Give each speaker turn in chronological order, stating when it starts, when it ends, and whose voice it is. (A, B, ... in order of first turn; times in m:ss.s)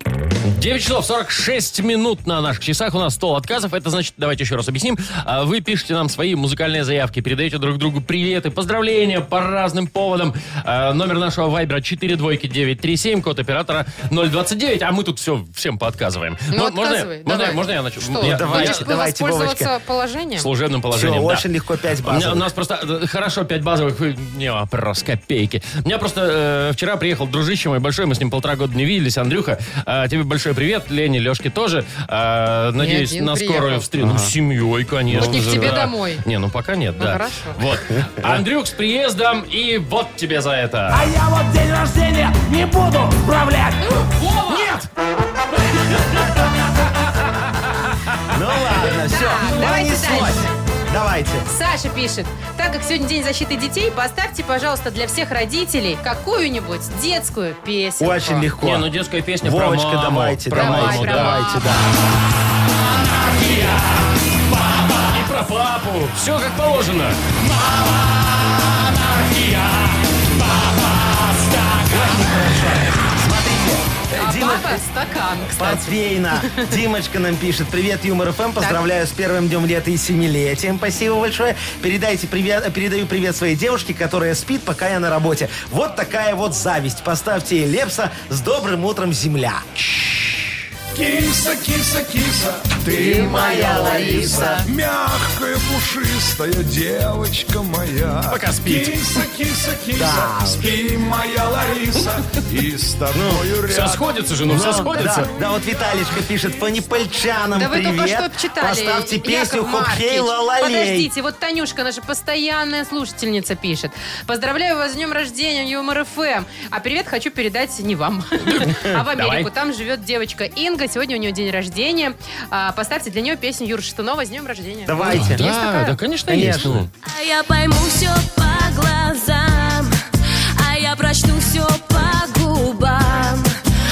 0:00.5-0:18.8 A
0:16.5-0:20.5 B
0:18.2-0:19.7 C
0:20.4-0:21.4 A
0:20.9-0:22.5 C
0:22.0-0:41.1 A
0:32.8-0:33.8 B
0:34.0-0:34.3 C
0:35.1-0:35.5 C
0:35.1-0:36.2 B
0:37.0-0:37.6 B
0:37.9-0:38.4 C
0:41.0-0:43.7 D
0:43.8-0:44.8 B
0:44.5-0:44.8 A
0:48.3-0:51.5 C
0:49.0-0:50.5 B
0:51.5-0:58.5 B
0:58.0-0:58.9 C
0:58.6-1:01.4 A
0:59.4-1:01.9 C
1:00.6-1:01.7 B
1:03.2-1:03.9 A
1:05.1-1:07.4 A
1:09.0-1:09.9 A
1:10.6-1:12.0 A
1:11.9-1:14.8 C
1:14.2-1:16.7 B
1:15.5-1:29.7 C
1:29.8-1:30.5 A
1:30.9-1:44.8 D
1:32.9-1:34.6 C
1:33.1-1:34.6 B
1:38.3-1:39.0 A
1:39.9-1:40.7 C
1:43.1-1:43.4 C
1:43.7-1:45.3 A
1:44.5-1:51.1 C
1:47.5-2:06.0 B
1:58.4-1:59.5 A
2:04.8-2:05.4 C
2:05.1-2:06.9 A
2:06.3-2:06.9 C
2:07.0-2:09.9 E
2:10.6-2:13.5 E